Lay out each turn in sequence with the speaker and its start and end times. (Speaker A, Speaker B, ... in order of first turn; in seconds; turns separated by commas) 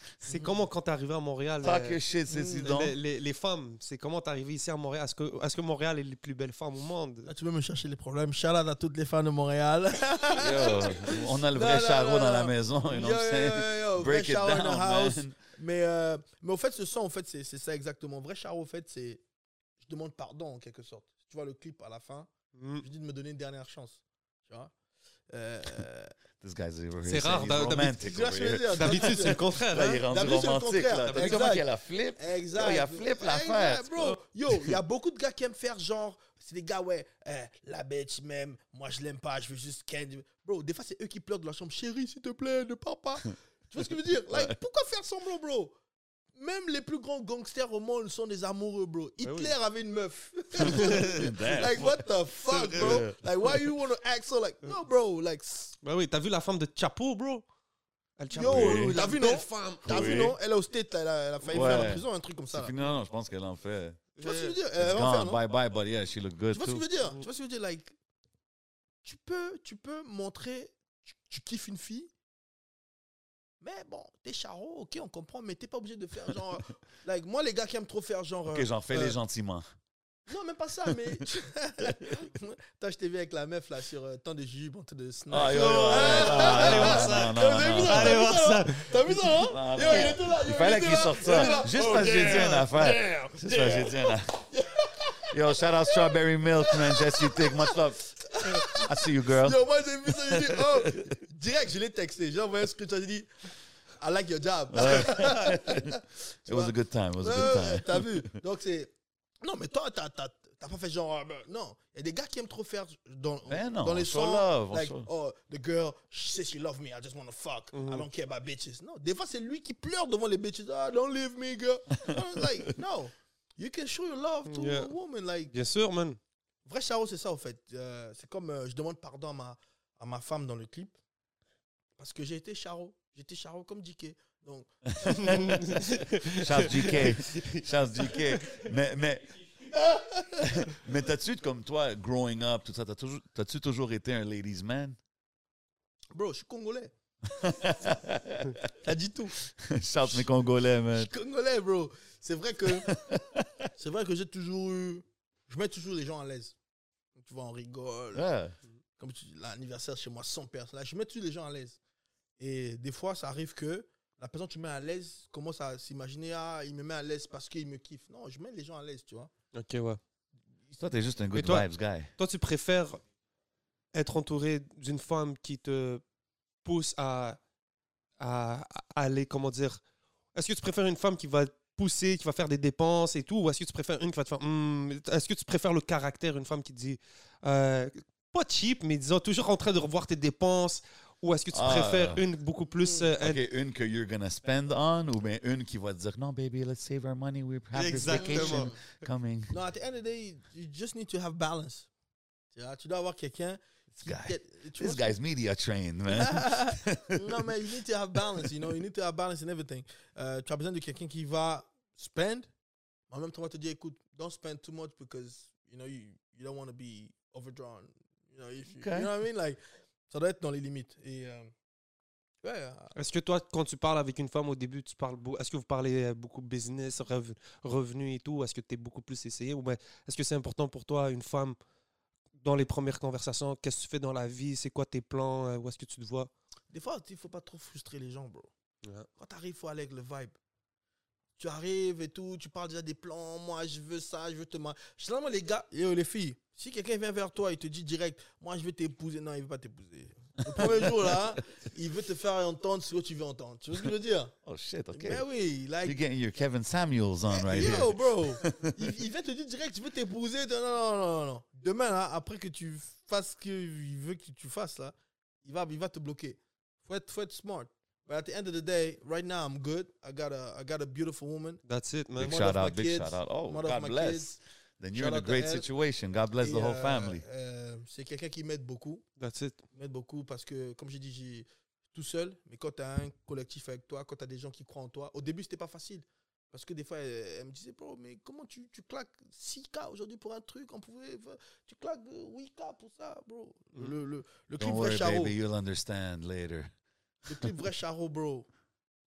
Speaker A: 0.2-2.0, Speaker B: 0.3-0.5, Speaker C: 1.6-3.0, Speaker B: 2.3-2.7, Speaker A: 2.5-7.3, Speaker B: 7.3-19.2, Speaker C: 10.4-15.4, Speaker B: 19.8-24.7, Speaker A: 22.6-22.9, Speaker B: 25.3-26.1, Speaker C: 26.4-34.8, Speaker A: 27.1-28.0, Speaker B: 27.9-29.4, Speaker A: 28.8-30.1, Speaker B: 30.0-45.7, Speaker A: 31.0-31.5, Speaker C: 44.3-44.5, Speaker B: 46.4-55.8, Speaker A: 49.2-49.5, Speaker C: 50.6-52.0, Speaker A: 50.6-51.6, Speaker A: 52.5-53.0, Speaker C: 52.7-53.7, Speaker A: 55.8-57.4, Speaker A: 58.2-60.2, Speaker B: 58.3-62.8, Speaker C: 58.4-59.0, Speaker C: 59.9-60.4, Speaker A: 61.5-61.9, Speaker C: 61.5-64.1, Speaker A: 64.2-64.6, Speaker B: 64.2-65.4, Speaker C: 64.8-66.8, Speaker B: 66.5-68.0, Speaker B: 69.0-72.1, Speaker B: 73.6-79.2, Speaker C: 78.5-79.7, Speaker B: 80.3-103.3, Speaker C: 85.3-88.2, Speaker A: 85.4-90.2, Speaker C: 89.5-94.5, Speaker A: 91.2-92.5, Speaker C: 95.3-101.1, Speaker B: 104.0-125.5, Speaker C: 104.7-108.3, Speaker C: 113.5-115.1, Speaker A: 117.7-118.1, Speaker C: 122.1-122.7, Speaker A: 124.5-124.9, Speaker A: 125.5-126.2, Speaker B: 126.7-130.9, Speaker B: 132.0-137.1, Speaker C: 135.1-139.4, Speaker A: 135.2-138.6, Speaker B: 139.7-140.2, Speaker C: 140.3-145.0, Speaker B: 146.2-146.9, Speaker C: 147.3-148.6, Speaker B: 148.8-149.4, Speaker C: 149.4-151.1, Speaker B: 150.0-150.3, Speaker B: 150.9-153.0, Speaker C: 152.7-153.5, Speaker B: 153.8-156.6, Speaker B: 157.2-158.3, Speaker C: 158.1-158.6, Speaker B: 159.0-161.8, Speaker B: 162.4-169.3, Speaker A: 169.5-170.0, Speaker C: 170.8-172.1, Speaker A: 171.3-173.0, Speaker A: 173.9-176.0, Speaker A: 176.6-177.4, Speaker A: 178.2-179.8, Speaker A: 180.3-193.4, Speaker C: 191.5-192.2, Speaker B: 192.8-193.1, Speaker C: 193.2-199.6, Speaker A: 197.7-198.7, Speaker B: 198.1-198.8, Speaker B: 199.5-201.9, Speaker B: 202.6-205.2, Speaker C: 203.9-207.5, Speaker B: 206.1-212.5, Speaker B: 213.1-221.5, Speaker C: 218.8-219.1, Speaker B: 222.4-222.9, Speaker A: 222.9-231.6, Speaker A: 232.4-236.3, Speaker B: 236.7-238.5, Speaker B: 239.2-240.3, Speaker B: 241.4-254.3, Speaker C: 250.5-251.2, Speaker C: 254.4-255.2, Speaker B: 254.9-256.0, Speaker C: 255.8-258.8, Speaker B: 257.3-271.6, Speaker A: 271.6-272.4, Speaker C: 272.2-277.2, Speaker B: 272.2-274.3, Speaker B: 274.9-275.7, Speaker B: 276.4-279.1, Speaker A: 279.2-279.6, Speaker B: 279.7-295.4, Speaker C: 294.6-296.7, Speaker B: 297.3-298.5